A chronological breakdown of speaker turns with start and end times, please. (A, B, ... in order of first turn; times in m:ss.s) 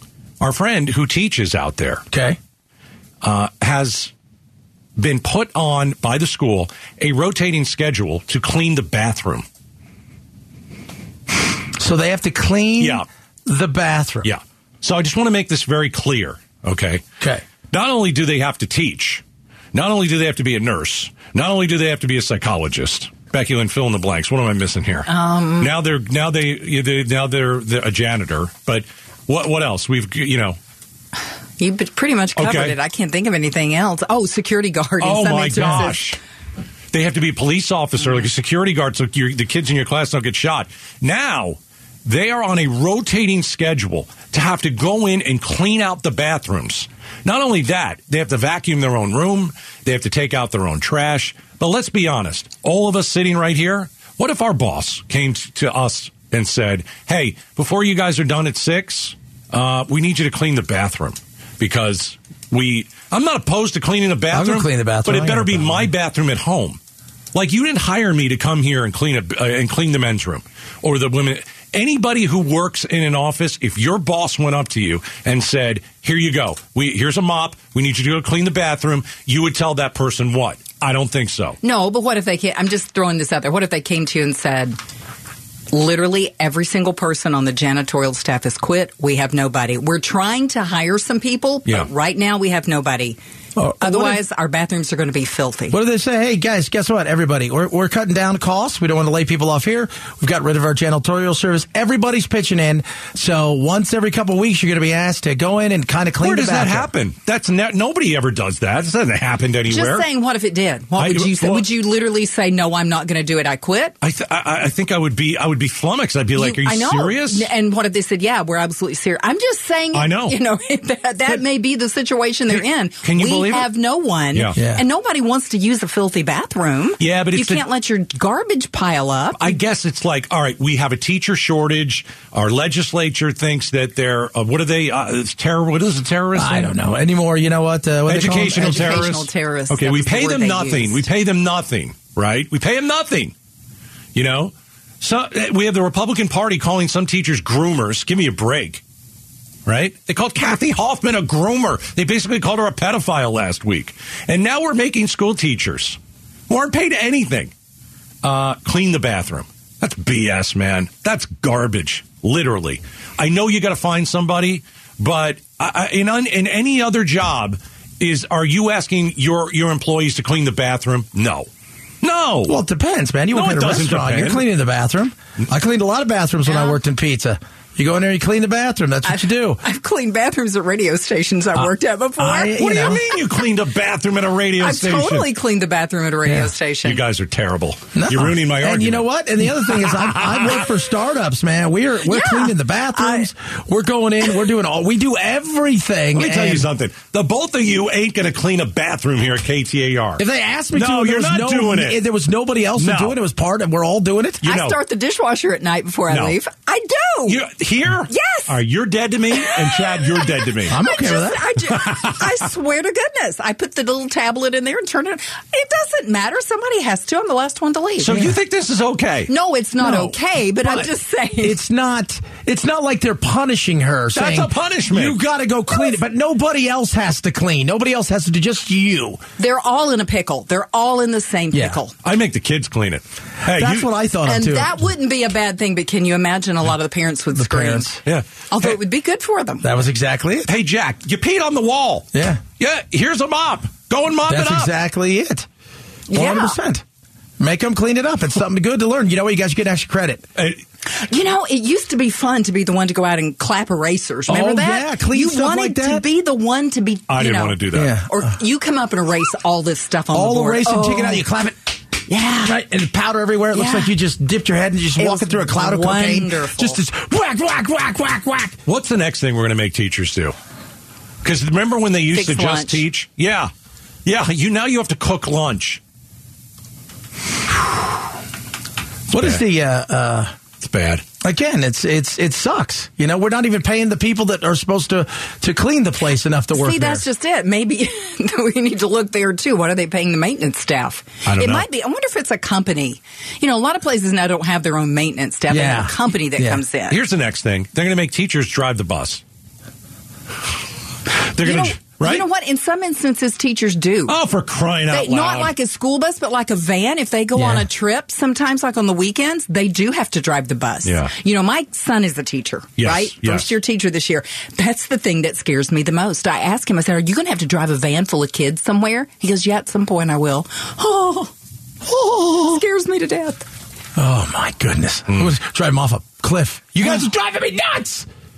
0:00.4-0:02.0 A
0:02.1-0:02.4 B
0:03.2-0:04.1 A
0:05.0-0:09.4 A
0:11.8-0:14.3 B
0:12.8-0:13.0 A
0:14.2-0:17.0 A
0:17.7-0:25.1 A
0:25.0-0:25.7 C
0:25.6-0:30.6 A
0:31.6-0:36.1 C
0:32.4-0:32.8 A
0:35.0-0:36.2 A
0:35.5-0:35.9 B
0:36.9-1:06.8 A
1:04.3-1:05.9 B
1:07.3-1:21.6 A
1:21.6-1:24.8 C
1:25.7-1:33.2 C
1:33.6-1:34.2 B
1:33.8-1:35.8 C
1:35.7-1:46.9 B
1:46.2-1:50.1 A
1:49.6-1:53.9 C
1:51.0-1:51.6 A
1:54.0-1:57.5 A
1:56.3-2:09.6 C
1:59.9-2:00.4 A
2:02.5-2:03.7 A
2:04.5-2:04.8 B
2:07.0-2:07.6 A
2:09.4-2:16.7 A
2:16.3-2:19.1 B
2:18.1-2:23.3 A
2:18.5-2:21.0 C
2:24.1-2:28.8 A
2:29.6-2:36.0 A
2:36.5-2:37.5 A
2:38.2-2:51.5 A
2:52.0-2:52.6 A
2:52.4-2:59.6 B
2:53.3-2:54.5 A
2:56.5-2:56.8 C
2:59.0-3:03.2 C
3:02.2-3:03.0 B
3:02.6-3:05.3 A
3:04.6-3:07.0 C
3:06.8-3:09.0 A
3:07.9-3:16.7 B
3:09.7-3:10.6 A
3:12.0-3:13.3 C
3:16.1-3:22.0 A
3:20.2-3:24.4 B
3:22.8-3:23.2 A
3:24.4-3:24.8 A
3:24.4-3:27.4 C
3:26.1-3:26.4 A
3:27.3-3:30.8 A
3:28.1-3:28.5 C
3:29.4-3:38.2 C
3:30.7-3:31.4 B
3:31.7-3:32.2 A
3:38.0-3:39.3 A
3:38.1-3:38.3 B
3:39.3-3:41.6 C
3:39.8-3:40.9 B
3:41.4-3:49.2 B
3:44.1-3:45.2 A
3:49.4-3:51.9 C
3:51.5-3:51.8 B
3:52.0-3:53.9 A
3:53.4-3:54.7 B
3:54.2-3:57.9 C
3:57.3-3:58.0 B
3:58.0-3:58.8 A
3:58.5-3:59.7 C
3:59.6-4:00.5 B
4:00.5-4:02.1 A
4:02.1-4:02.4 B
4:02.6-4:04.7 A
4:04.2-4:05.5 B
4:06.1-4:06.6 C
4:06.1-4:06.8 B
4:07.4-4:10.3 B
4:10.4-4:10.6 A
4:10.9-4:21.2 C
4:14.3-4:16.0 B
4:17.1-4:17.9 A
4:17.7-4:18.2 B
4:20.1-4:21.7 B
4:22.1-4:22.6 C
4:22.4-4:28.6 B
4:23.5-4:23.9 C
4:25.0-4:26.8 C
4:28.6-4:30.3 A
4:31.2-4:33.5 A
4:32.1-4:32.8 C
4:34.0-4:35.8 A
4:39.1-4:40.3 B
4:39.1-4:39.4 A
4:40.6-4:41.0 A
4:41.2-4:47.0 B
4:46.5-4:57.0 C
4:51.2-4:51.6 A
4:55.5-4:56.6 B
4:56.9-4:59.2 A
5:01.2-5:02.2 A
5:01.4-5:04.1 C
5:04.1-5:05.5 A
5:04.9-5:21.3 C
5:07.3-5:07.7 B
5:10.8-5:11.1 A
5:12.8-5:13.5 A
5:21.9-5:23.4 C
5:24.0-5:28.1 B